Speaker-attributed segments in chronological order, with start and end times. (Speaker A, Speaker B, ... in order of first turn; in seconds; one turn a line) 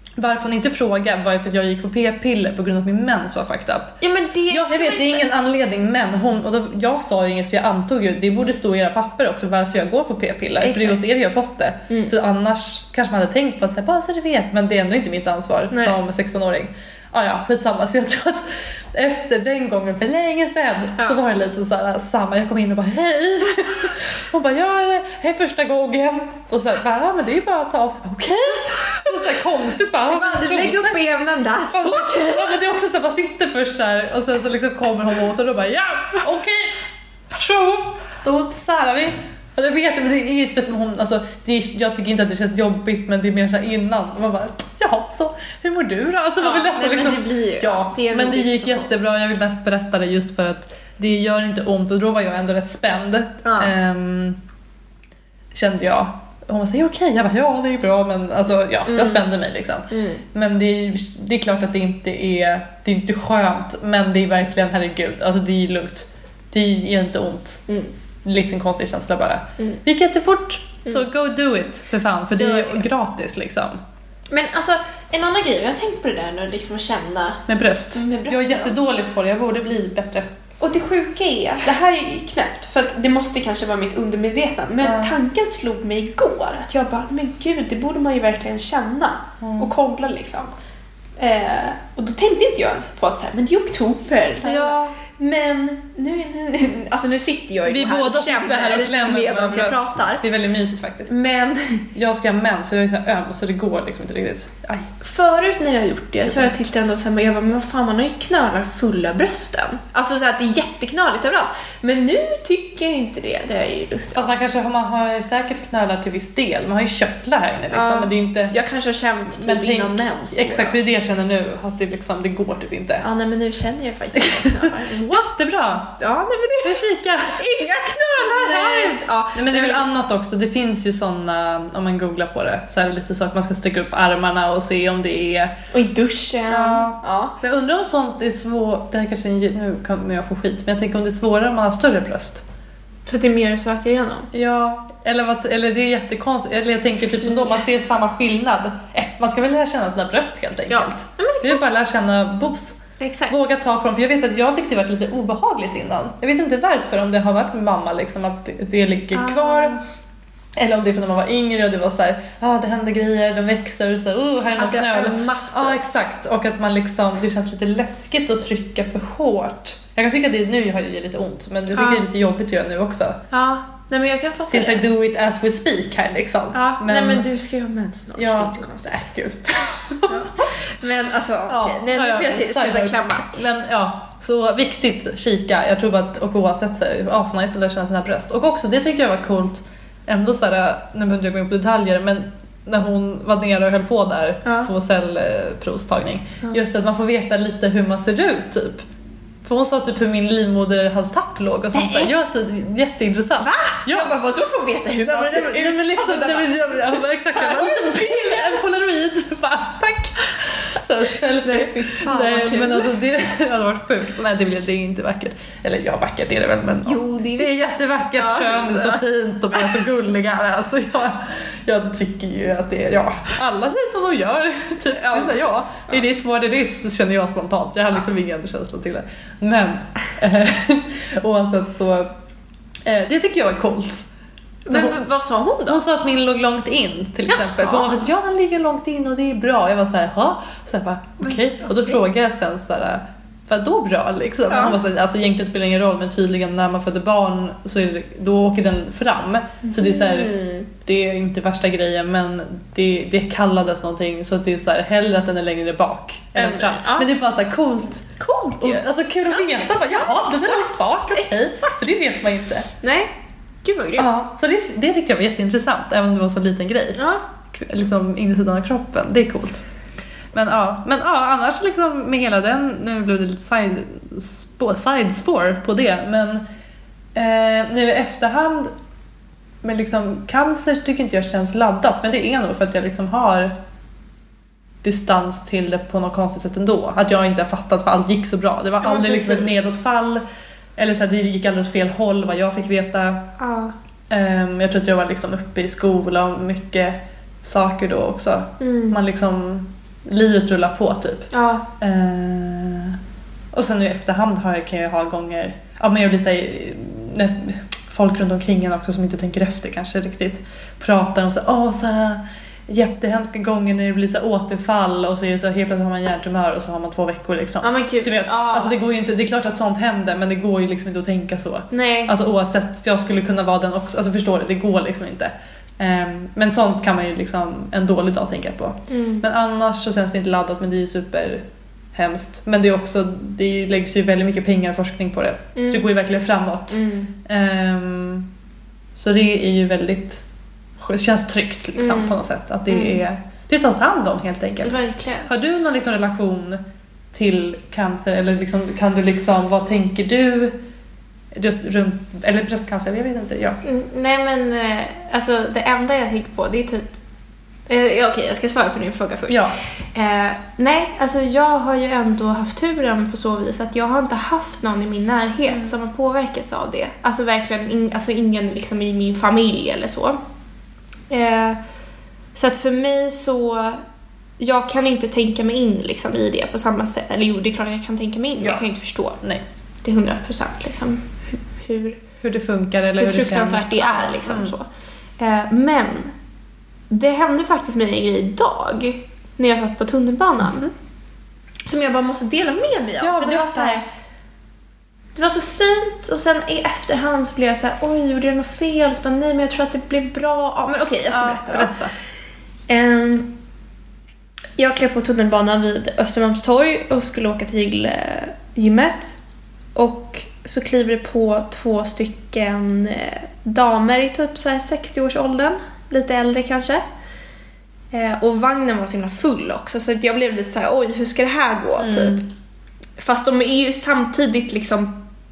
Speaker A: 0.2-4.0
Speaker B: 4.0-5.3
Speaker A: 4.5-31.0
Speaker B: 10.6-11.0
Speaker B: 11.9-12.1
Speaker B: 15.7-16.0
Speaker B: 30.1-32.6
Speaker A: 31.7-54.4
Speaker B: 46.4-48.9
Speaker B: 53.4-53.7
Speaker A: 55.5-67.6
Speaker B: 58.9-59.2
Speaker B: 59.9-60.2
Speaker A: 68.2-73.8
Speaker B: 72.3-72.8
Speaker B: 74.3-78.8
Speaker A: 77.5-80.2
Speaker B: 80.6-90.5
Speaker A: 84.8-85.2
Speaker A: 89.4-89.7
Speaker B: 91.2-100.2
Speaker A: 94.4-95.0
Speaker A: 97.7-101.1
Speaker B: 101.1-101.9
Speaker A: 101.9-104.9
Speaker B: 105.0-114.3
Speaker A: 106.2-106.5
Speaker A: 114.1-118.5
Speaker B: 117.7-120.8
Speaker A: 119.3-123.0
Speaker B: 123.0-129.8
Speaker A: 124.1-126.0
Speaker A: 126.6-127.4
Speaker A: 128.1-135.5
Speaker B: 135.7-137.3
Speaker A: 136.5-142.4
Speaker B: 143.1-144.3
Speaker A: 144.3-152.8
Speaker B: 150.7-151.6
Speaker B: 153.0-153.3
Speaker A: 153.3-159.7
Speaker B: 159.1-159.8
Speaker A: 160.6-173.2
Speaker B: 164.6-165.8
Speaker B: 171.7-172.0
Speaker B: 173.3-174.8
Speaker A: 174.5-177.2
Speaker B: 176.5-179.0
Speaker A: 178.2-180.3
Speaker B: 180.1-183.3
Speaker A: 181.5-198.8
Speaker B: 194.4-194.7
Speaker A: 199.4-204.1
Speaker B: 201.7-202.1
Speaker B: 203.4-208.6
Speaker A: 205.0-232.1
Speaker B: 211.3-212.9
Speaker B: 216.8-219.0
Speaker B: 224.9-226.0
Speaker A: 232.8-234.1
Speaker B: 234.7-235.8
Speaker A: 234.7-235.0
Speaker A: 235.7-262.7
Speaker B: 237.3-238.0
Speaker B: 241.2-242.0
Speaker B: 244.5-244.8
Speaker B: 249.6-250.7
Speaker B: 256.4-257.1
Speaker B: 258.2-261.8
Speaker B: 262.8-263.1
Speaker B: 263.6-264.1
Speaker A: 264.0-267.0
Speaker B: 267.0-267.2
Speaker A: 267.5-269.6
Speaker A: 270.3-276.4
Speaker A: 277.1-278.7
Speaker A: 279.6-283.5
Speaker A: 284.8-290.2
Speaker B: 288.8-289.7
Speaker A: 290.8-293.3
Speaker B: 293.4-293.7
Speaker A: 294.1-301.3
Speaker B: 298.6-299.0
Speaker B: 301.3-301.7
Speaker A: 301.8-303.0
Speaker A: 303.5-331.4
Speaker B: 317.6-318.8
Speaker B: 321.7-322.1
Speaker B: 328.9-329.3
Speaker A: 331.9-338.3
Speaker B: 335.6-335.8
Speaker B: 336.7-337.1
Speaker A: 338.9-340.2
Speaker A: 340.8-346.6
Speaker B: 341.8-343.0
Speaker B: 344.6-345.3
Speaker A: 347.1-350.5
Speaker A: 351.3-353.6
Speaker B: 353.6-356.9
Speaker B: 357.7-359.4
Speaker A: 359.3-359.6
Speaker B: 359.9-370.2
Speaker A: 365.5-365.7
Speaker B: 371.1-371.6
Speaker B: 372.4-373.8
Speaker B: 374.4-379.2
Speaker A: 378.4-378.7
Speaker B: 379.8-382.0
Speaker A: 382.2-384.5
Speaker B: 383.0-384.6
Speaker B: 385.2-386.1
Speaker B: 386.9-390.7
Speaker B: 391.6-393.9
Speaker A: 393.0-393.8
Speaker B: 395.1-401.7
Speaker A: 401.1-401.9
Speaker B: 402.7-403.3
Speaker B: 404.6-409.2
Speaker B: 409.7-416.8
Speaker B: 417.9-422.2
Speaker A: 421.8-422.2
Speaker B: 423.0-425.0